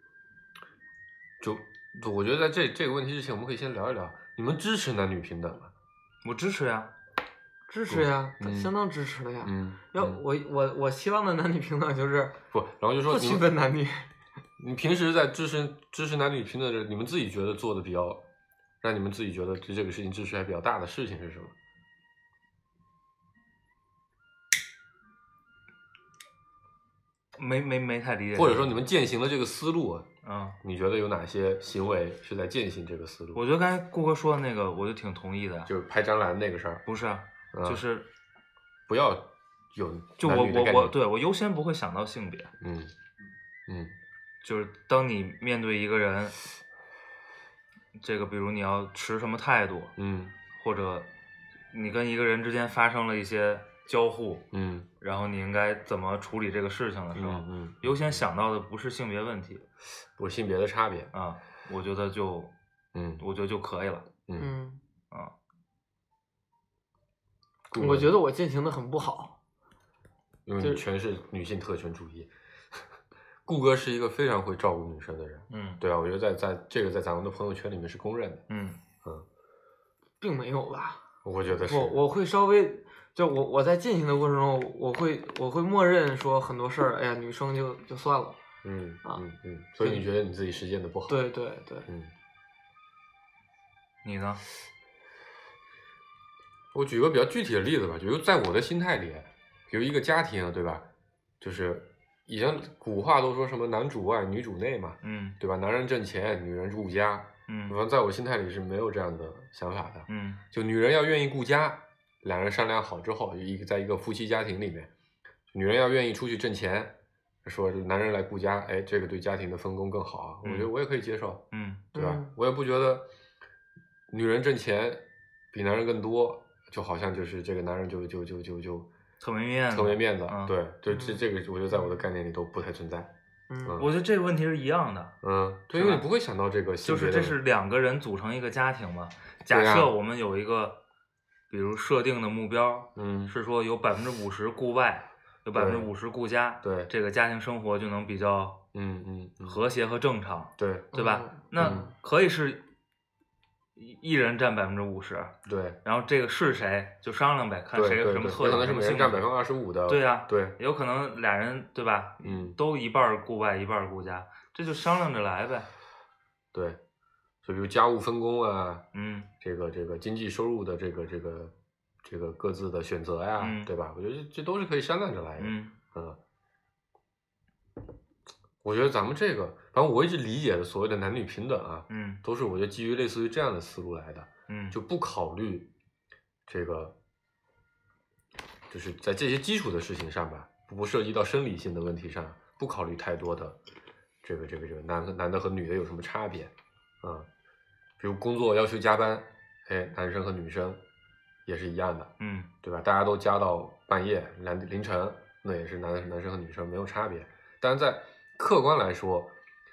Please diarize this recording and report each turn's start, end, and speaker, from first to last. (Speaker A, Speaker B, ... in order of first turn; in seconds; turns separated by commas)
Speaker A: 1.4-5.7, Speaker B: 6.2-6.9, Speaker C: 7.7-12.4, Speaker A: 7.9-8.7, Speaker A: 9.4-10.2, Speaker A: 12.5-13.5, Speaker C: 13.1-14.1, Speaker A: 14.6-18.2, Speaker A: 18.8-21.5, Speaker B: 27.4-28.8, Speaker A: 28.3-30.1, Speaker B: 30.2-30.6, Speaker A: 30.6-33.4, Speaker B: 33.3-35.7, Speaker A: 35.6-36.8, Speaker B: 36.9-38.1, Speaker A: 37.5-37.8, Speaker A: 38.9-40.9, Speaker B: 40.2-42.5, Speaker A: 42.6-42.9, Speaker A: 43.7-43.9, Speaker B: 44.4-46.4, Speaker B: 48.0-49.9, Speaker A: 50.0-50.4, Speaker B: 50.5-51.1, Speaker B: 51.7-54.5, Speaker A: 54.5-54.9, Speaker B: 55.0-59.6, Speaker A: 57.1-58.2, Speaker A: 60.2-61.1, Speaker B: 61.1-62.5, Speaker A: 62.9-63.2, Speaker B: 63.2-64.1, Speaker C: 64.4-64.8, Speaker A: 67.7-68.1, Speaker C: 67.8-69.4, Speaker A: 70.5-72.8, Speaker A: 73.5-78.4, Speaker B: 75.5-75.8, Speaker B: 78.5-78.8, Speaker C: 80.2-88.4, Speaker A: 81.2-82.0, Speaker A: 88.6-91.2, Speaker C: 91.1-91.9, Speaker B: 94.0-94.4, Speaker A: 96.7-100.8, Speaker A: 101.4-114.9, Speaker B: 105.0-105.3, Speaker B: 107.5-107.8, Speaker B: 110.1-110.4, Speaker A: 115.5-123.1, Speaker B: 120.4-120.7, Speaker B: 121.5-121.8, Speaker C: 121.9-122.3, Speaker A: 124.1-128.9, Speaker B: 129.2-130.6, Speaker A: 129.7-133.1, Speaker C: 130.9-131.3, Speaker C: 133.5-133.8, Speaker A: 133.6-133.9, Speaker B: 133.8-135.2, Speaker A: 135.2-137.4, Speaker B: 135.7-136.1, Speaker B: 136.8-140.8, Speaker A: 139.5-139.9, Speaker B: 141.5-148.7, Speaker A: 142.9-143.3, Speaker A: 145.5-145.9, Speaker A: 146.6-146.9, Speaker A: 148.7-149.6, Speaker B: 149.4-152.6, Speaker A: 150.6-150.9, Speaker C: 150.9-151.8, Speaker A: 151.6-151.9, Speaker B: 153.8-159.3, Speaker A: 155.4-155.8, Speaker A: 157.7-160.6, Speaker B: 159.9-165.7, Speaker A: 162.2-162.6, Speaker A: 166.5-166.8, Speaker A: 167.4-168.9, Speaker B: 168.9-169.3, Speaker A: 169.4-176.2, Speaker B: 173.4-173.7, Speaker B: 175.4-175.7, Speaker A: 178.6-185.7, Speaker B: 181.9-182.2, Speaker B: 184.5-184.8, Speaker A: 186.5-186.9, Speaker A: 188.7-193.6, Speaker A: 194.2-197.3, Speaker A: 198.0-200.8, Speaker A: 201.4-209.3, Speaker B: 202.2-202.5